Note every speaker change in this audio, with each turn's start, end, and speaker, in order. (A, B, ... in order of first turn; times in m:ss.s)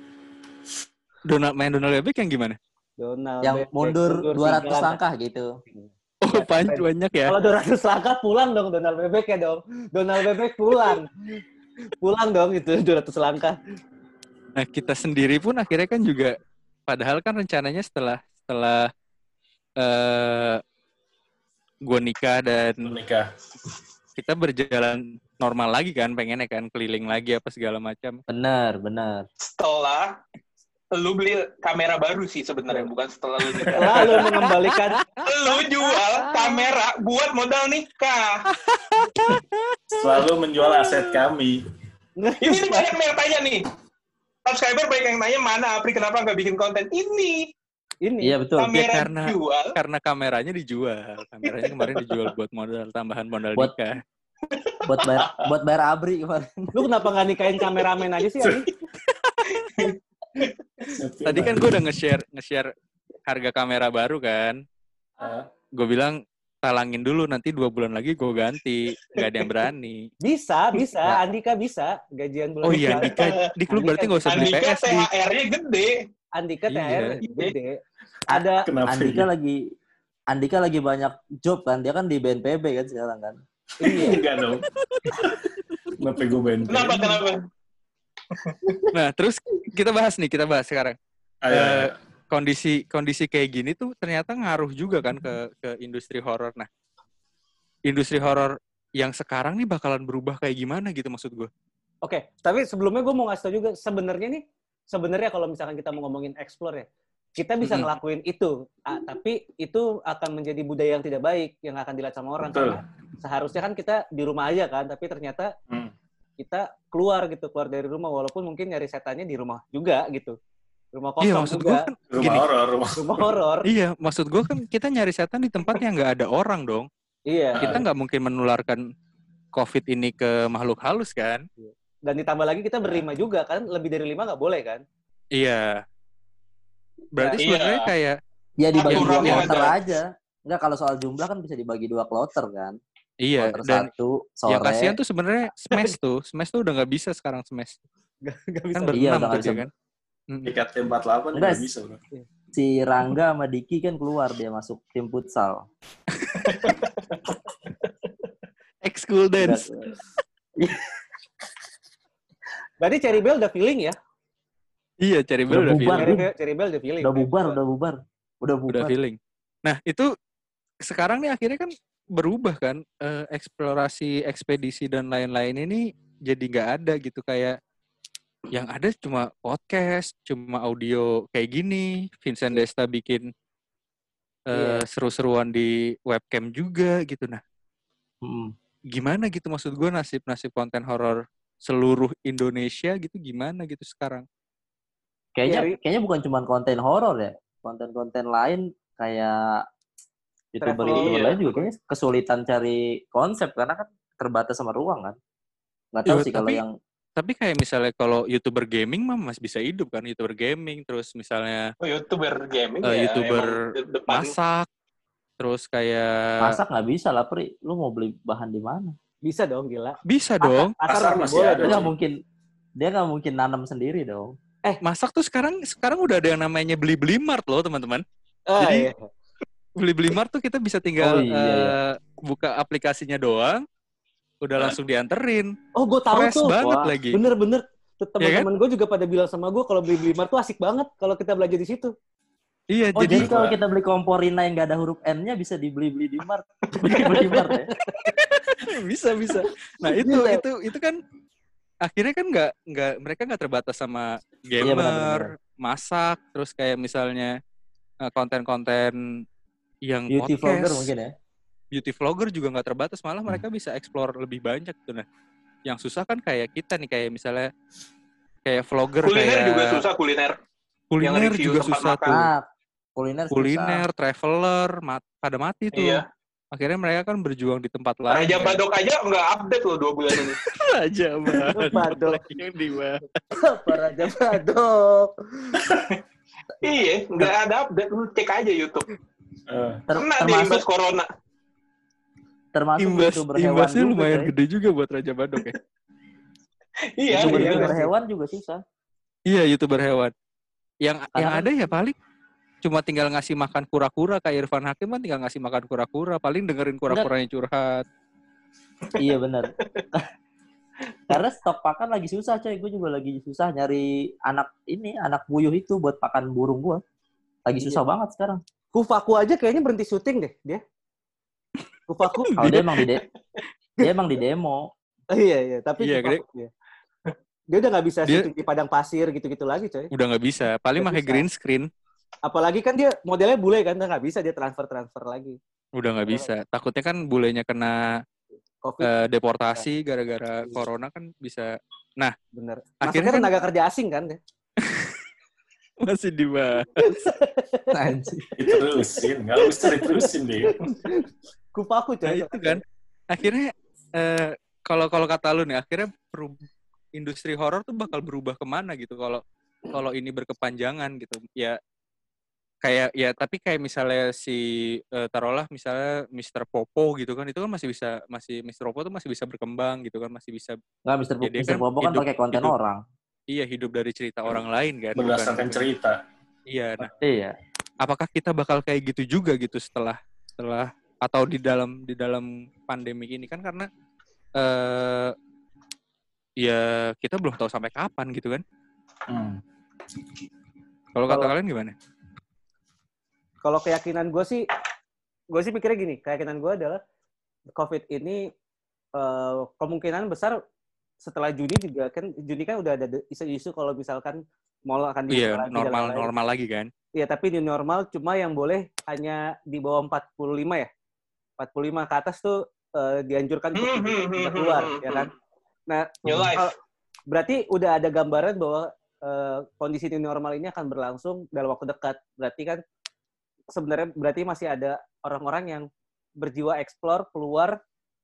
0:01.3-0:02.6 A
0:03.0-0:05.0 B
0:03.4-0:05.5 C
0:05.7-0:11.4 B
0:06.2-0:07.4 A
0:12.0-0:13.6 B
0:14.6-0:16.4 A
0:16.9-0:18.9 A
0:19.8-0:20.6 A
0:21.9-0:23.0 A
0:22.8-0:23.3 D
0:24.2-0:28.2 A
0:28.3-0:29.3 C
0:29.4-0:30.2 E
0:30.9-0:34.2 E
0:33.6-0:34.4 A
0:33.7-0:35.0 B
0:35.2-0:38.4 E
0:38.6-0:40.2 A
0:39.9-0:41.7 D
0:42.2-0:42.9 B
0:42.4-0:43.7 E
0:44.4-0:47.5 E
0:48.0-0:48.4 B
0:48.2-0:49.0 C
0:48.6-0:49.8 E
0:48.9-0:54.0 A
0:54.5-0:55.0 E
0:54.9-0:56.9 C
0:55.2-0:55.5 D
0:56.7-0:58.7 B
0:59.3-0:59.6 A
0:59.7-1:00.5 E
1:00.9-1:01.8 D
1:01.2-1:02.7 A
1:03.3-1:04.6 A
1:05.2-1:05.5 D
1:05.8-1:10.1 A
1:10.2-1:14.5 B
1:12.6-1:15.1 A
1:12.7-1:13.5 E
1:14.3-1:16.0 E
1:16.4-1:18.7 B
1:16.7-1:17.2 A
1:17.2-1:17.5 E
1:18.6-1:19.3 D
1:18.8-1:19.7 C
1:20.3-1:23.4 C
1:23.8-1:24.2 B
1:23.9-1:27.2 D
1:24.8-1:25.1 A
1:26.7-1:27.4 E
1:28.3-1:28.9 E
1:28.9-1:31.0 A
1:31.5-1:32.0 D
1:31.5-1:36.7 A
1:37.9-1:41.5 A
1:42.0-1:55.5 B
1:47.6-1:47.9 A
1:52.4-1:52.8 D
1:56.4-2:00.4 B
2:00.9-2:01.9 B
2:01.2-2:02.5 A
2:02.1-2:03.3 D
2:03.0-2:03.7 B
2:03.7-2:06.9 A
2:07.3-2:07.8 B
2:07.6-2:07.8 D
2:07.6-2:08.8 A
2:09.5-2:11.5 A
2:11.6-2:14.8 B
2:15.4-2:15.8 A
2:17.2-2:18.2 A
2:17.2-2:17.4 B
2:17.4-2:17.9 E
2:18.6-2:22.8 C
2:18.8-2:19.8 E
2:18.9-2:19.7 A
2:23.2-2:23.9 A
2:23.4-2:25.0 C
2:24.5-2:27.8 A
2:28.2-2:29.1 B
2:28.7-2:29.7 A
2:28.9-2:29.7 C
2:30.3-2:30.6 A
2:30.4-2:32.0 D
2:31.3-2:31.7 C
2:32.5-2:35.7 C
2:36.2-2:36.6 A
2:36.5-2:37.2 E
2:38.8-2:39.7 A
2:39.4-2:39.7 C
2:40.6-2:40.9 C
2:42.8-2:44.0 B
2:45.0-2:46.1 A
2:45.5-2:46.3 C
2:46.0-2:47.6 B
2:47.0-2:49.0 C
2:48.7-2:50.1 A
2:50.9-2:57.6 A
2:58.5-3:03.3 A
3:04.5-3:07.4 A
3:04.5-3:04.8 B
3:08.2-3:08.5 C
3:08.9-3:14.3 A
3:15.4-3:19.7 C
3:15.5-3:15.8 B
3:20.5-3:25.2 C
3:20.6-3:21.6 B
3:20.9-3:21.4 E
3:25.9-3:26.7 C
3:26.1-3:26.6 A
3:27.2-3:31.7 A
3:31.8-3:34.4 E
3:32.8-3:33.6 A
3:34.1-3:34.7 A
3:35.4-3:36.6 A
3:36.4-3:39.0 C
3:39.2-3:41.8 B
3:40.1-3:40.8 A
3:40.9-3:41.9 D
3:41.6-3:42.2 C
3:42.8-3:44.4 C
3:44.8-3:48.0 A
3:48.5-3:49.1 B
3:48.6-3:48.9 A
3:49.8-3:53.6 A
3:51.0-3:51.8 C
3:54.4-3:55.6 A
3:55.8-4:01.9 B
3:56.1-3:57.2 A
3:58.2-3:58.5 A
4:02.7-4:03.5 A
4:03.0-4:07.7 C
4:03.1-4:03.6 D
4:06.7-4:07.3 E
4:08.0-4:11.0 A
4:10.0-4:10.4 B
4:11.8-4:17.4 A
4:14.6-4:15.3 C
4:18.0-4:19.0 A
4:19.8-4:20.9 A
4:20.1-4:21.1 C
4:21.7-4:25.0 A
4:25.7-4:27.5 A
4:28.4-4:29.8 A
4:29.0-4:30.4 E
4:30.9-4:32.2 A
4:31.0-4:32.3 E
4:32.1-4:33.8 C
4:33.3-4:36.0 A
4:35.7-4:36.0 E
4:36.5-4:38.6 A
4:38.1-4:40.4 E
4:40.2-4:43.0 A
4:41.5-4:42.3 B
4:43.3-4:45.6 B
4:45.6-4:45.8 D
4:46.6-4:48.9 E
4:49.5-4:49.9 D
4:49.9-4:50.6 C
4:50.0-4:51.1 E
4:52.5-4:54.3 C
4:52.8-4:55.6 A
4:57.0-4:57.7 E
4:57.1-4:58.6 C
4:57.2-4:57.9 B
4:59.3-5:00.1 A
5:00.8-5:02.0 A
5:01.2-5:01.5 C
5:02.6-5:07.8 A
5:09.0-5:10.1 C
5:11.1-5:16.8 C
5:17.5-5:18.4 C
5:18.7-5:20.6 B
5:21.9-5:22.4 B
5:22.2-5:22.7 A
5:22.4-5:23.0 C
5:23.8-5:24.7 C
5:25.1-5:26.5 B
5:25.8-5:26.2 A
5:27.5-5:29.9 B
5:29.9-5:31.7 A
5:30.8-5:31.3 B
5:32.3-5:35.4 B
5:35.8-5:38.0 A
5:38.6-5:38.9 B
5:38.8-5:42.2 A
5:42.3-5:44.2 B
5:42.8-5:43.3 A
5:44.6-5:45.0 A
5:45.8-5:47.0 A
5:46.8-5:47.8 B
5:47.7-5:48.3 C
5:48.4-5:50.6 D
5:48.5-5:52.6 B
5:52.1-5:56.4 A
5:57.0-6:01.6 A
6:02.6-6:10.6 A
6:10.9-6:12.8 C
6:11.2-6:12.5 A
6:13.3-6:15.6 A
6:15.0-6:16.0 D
6:16.5-6:16.9 A
6:17.0-6:17.4 C
6:17.8-6:23.7 A
6:24.4-6:25.1 A
6:26.4-6:28.4 A
6:29.1-6:29.4 D
6:31.0-6:31.8 A
6:31.1-6:31.3 B
6:33.4-6:34.4 B
6:35.3-6:36.8 B
6:37.6-6:38.3 B
6:39.0-6:40.4 B
6:41.0-6:46.1 B
6:45.1-6:46.7 A
6:47.0-6:50.7 B
6:51.4-6:55.1 B
6:53.6-6:55.1 E
6:55.7-6:56.6 B
6:56.0-6:56.5 E
6:57.1-7:02.6 B
7:03.6-7:05.7 B
7:06.2-7:07.6 B